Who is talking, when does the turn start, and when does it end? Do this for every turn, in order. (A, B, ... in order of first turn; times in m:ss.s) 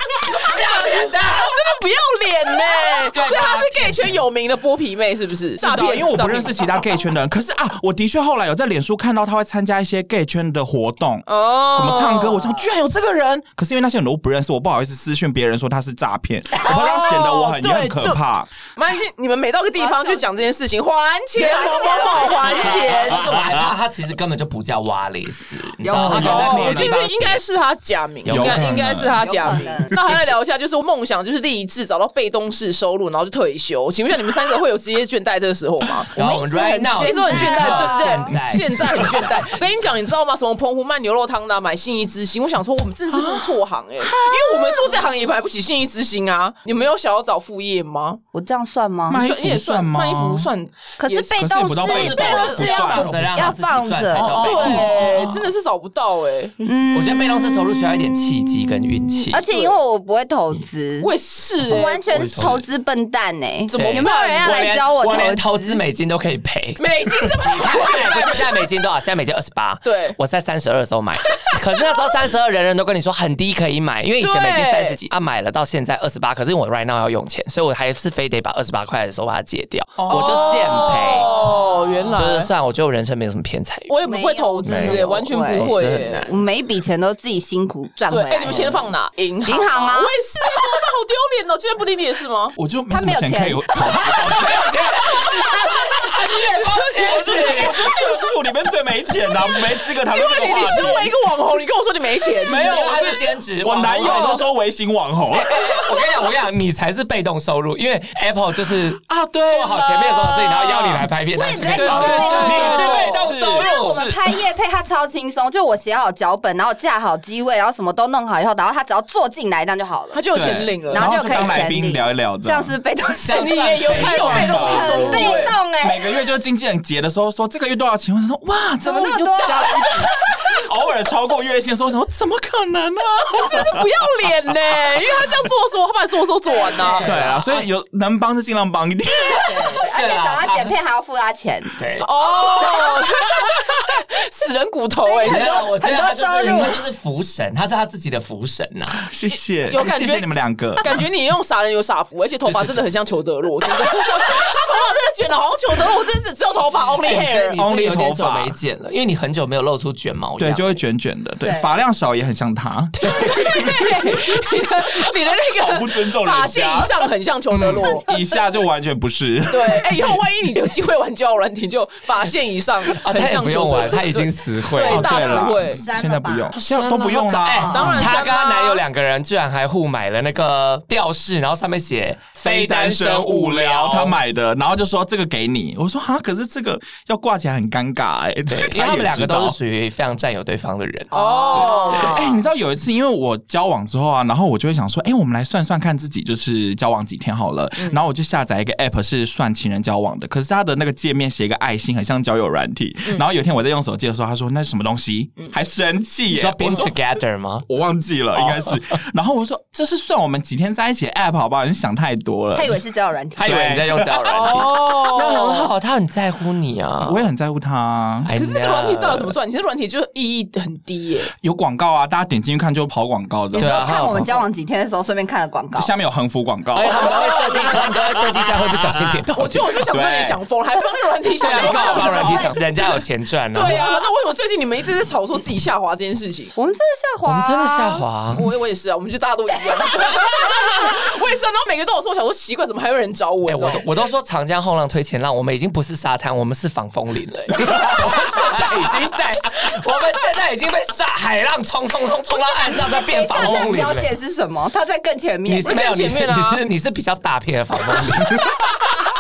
0:00.3-0:01.5 A
0:00.4-0:06.8 B
0:03.0-0:04.2 A
0:05.6-0:18.5 C
0:11.3-0:12.5 B
0:16.6-0:18.2 B
0:18.8-0:23.3 B
0:19.8-0:20.2 D
0:21.4-0:23.0 D
0:22.5-0:27.4 A
0:22.5-0:23.7 C
0:25.8-0:26.6 D
0:25.9-0:27.0 C
0:26.1-0:36.1 B
0:28.2-0:28.7 A
0:28.2-0:29.9 C
0:29.2-0:29.9 D
0:36.1-0:38.3 D
0:36.1-0:39.2 A
0:37.0-0:48.2 B
0:38.6-0:39.3 C
0:43.1-0:43.6 C
0:44.1-0:44.9 D
0:48.3-0:49.2 D
0:49.1-0:50.5 C
0:49.1-0:51.6 B
0:51.0-0:54.9 D
0:51.4-0:53.4 C
0:51.8-0:55.3 A
0:52.2-0:52.8 B
0:54.1-0:55.3 C
0:54.4-0:56.6 B
0:56.6-1:01.1 D
0:56.9-0:59.4 A
0:59.4-0:59.8 B
1:01.0-1:02.1 B
1:01.6-1:05.8 D
1:02.1-1:02.6 A
1:02.2-1:02.5 C
1:03.7-1:04.8 B
1:03.7-1:21.4 A
1:06.8-1:08.5 B
1:09.8-1:10.2 B
1:14.2-1:15.0 B
1:20.1-1:22.5 B
1:22.1-1:23.9 A
1:23.9-1:26.3 B
1:24.0-1:28.8 D
1:24.6-1:26.4 A
1:28.1-1:32.6 B
1:29.4-1:30.1 D
1:32.5-1:35.6 C
1:32.9-1:33.7 D
1:34.2-1:37.8 A
1:36.2-1:38.0 B
1:36.8-1:41.1 C
1:39.5-1:43.1 B
1:42.4-1:45.9 C
1:42.5-1:44.5 A
1:45.5-1:54.0 A
1:49.1-1:51.1 C
1:51.4-2:00.2 D
1:51.7-1:54.2 C
1:51.9-1:53.2 B
2:00.1-2:01.6 B
2:00.3-2:02.7 C
2:00.9-2:06.0 D
2:03.2-2:05.5 A
2:03.4-2:05.5 B
2:03.9-2:14.1 C
2:08.8-2:09.9 D
2:13.4-2:17.1 B
2:16.5-2:17.2 D
2:16.9-2:17.7 A
2:17.0-2:19.7 C
2:19.3-2:21.8 D
2:19.8-2:20.8 A
2:21.8-2:22.1 A
2:22.0-2:25.6 B
2:22.5-2:23.0 D
2:25.0-2:26.8 D
2:25.2-2:29.1 A
2:29.1-2:30.9 C
2:29.7-2:37.6 B
2:32.5-2:32.8 A
2:37.0-2:40.8 A
2:37.5-2:38.6 C
2:40.4-2:44.9 C
2:41.4-2:41.7 D
2:43.0-2:48.1 B
2:45.6-2:50.2 C
2:49.5-2:55.8 B
2:52.9-2:55.2 A
2:54.8-2:58.2 C
2:55.0-2:56.5 D
2:56.6-3:04.2 A
2:57.6-2:57.9 D
2:57.7-2:58.8 B
3:02.4-3:09.6 C
3:08.5-3:11.1 A
3:11.1-3:12.2 B
3:11.1-3:12.5 D
3:11.5-3:27.0 C
3:26.3-3:27.6 A
3:27.6-3:32.8 C
3:28.3-3:28.8 A
3:32.5-3:33.6 D
3:33.4-3:37.2 A
3:33.4-3:34.6 C
3:34.3-3:35.7 B
3:37.0-3:38.3 C
3:38.2-3:39.4 A
3:38.4-3:41.3 B
3:41.4-3:44.2 C
3:43.5-3:45.9 D
3:43.5-3:44.4 A
3:45.7-3:47.2 C
3:46.7-3:49.6 A
3:47.0-3:47.7 B
3:48.0-3:49.2 C
3:49.3-3:52.6 B
3:49.8-3:50.4 C
3:51.4-3:53.9 A
3:51.6-3:52.5 D
3:53.5-3:56.5 B
3:56.5-3:58.0 D
3:57.2-3:58.5 A
3:58.3-4:03.8 B
4:03.5-4:14.1 A
4:08.1-4:08.8 B
4:12.9-4:15.8 D
4:15.5-4:18.9 A
4:15.6-4:16.6 B